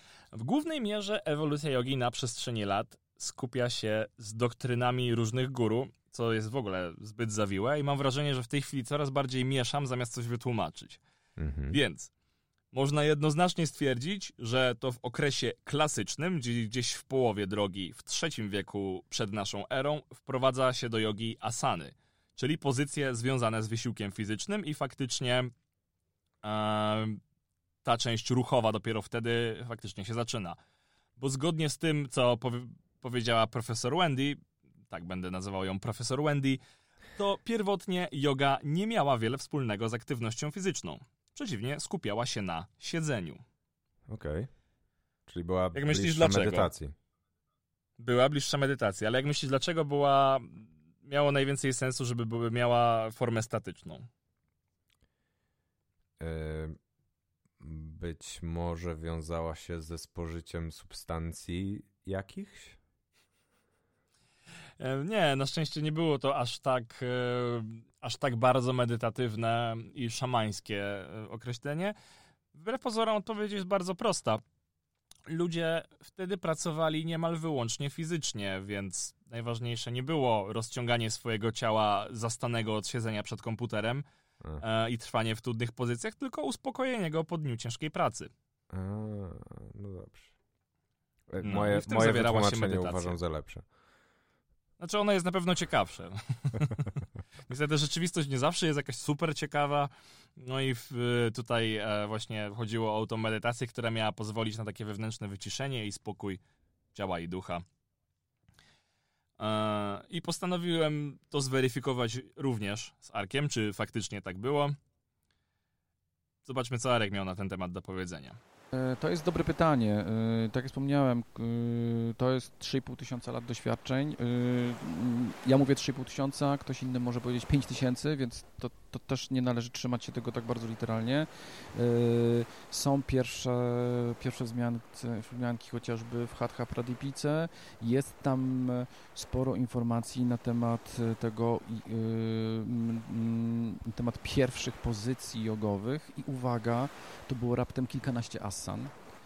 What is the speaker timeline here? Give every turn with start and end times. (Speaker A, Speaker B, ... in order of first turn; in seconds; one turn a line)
Speaker A: 0.3-11.0
Speaker B: 11.4-11.8
Speaker A: 11.7-12.1
Speaker A: 12.7-25.5
Speaker A: 26.4-27.2
Speaker A: 27.8-30.6
Speaker A: 31.2-36.6
Speaker A: 37.2-43.4
Speaker B: 44.1-44.5
Speaker B: 45.3-46.9
Speaker A: 45.7-46.7
Speaker A: 48.0-54.1
Speaker B: 56.2-56.8
Speaker B: 57.6-62.8
Speaker A: 64.8-72.0
Speaker A: 72.5-74.4
Speaker A: 75.3-84.0
Speaker A: 84.6-88.3
Speaker B: 88.7-90.3
Speaker B: 91.3-93.7
Speaker A: 91.4-93.2
Speaker A: 94.8-106.4
Speaker A: 106.9-107.6
Speaker A: 109.4-114.8
Speaker A: 116.4-118.4
Speaker C: 118.7-148.9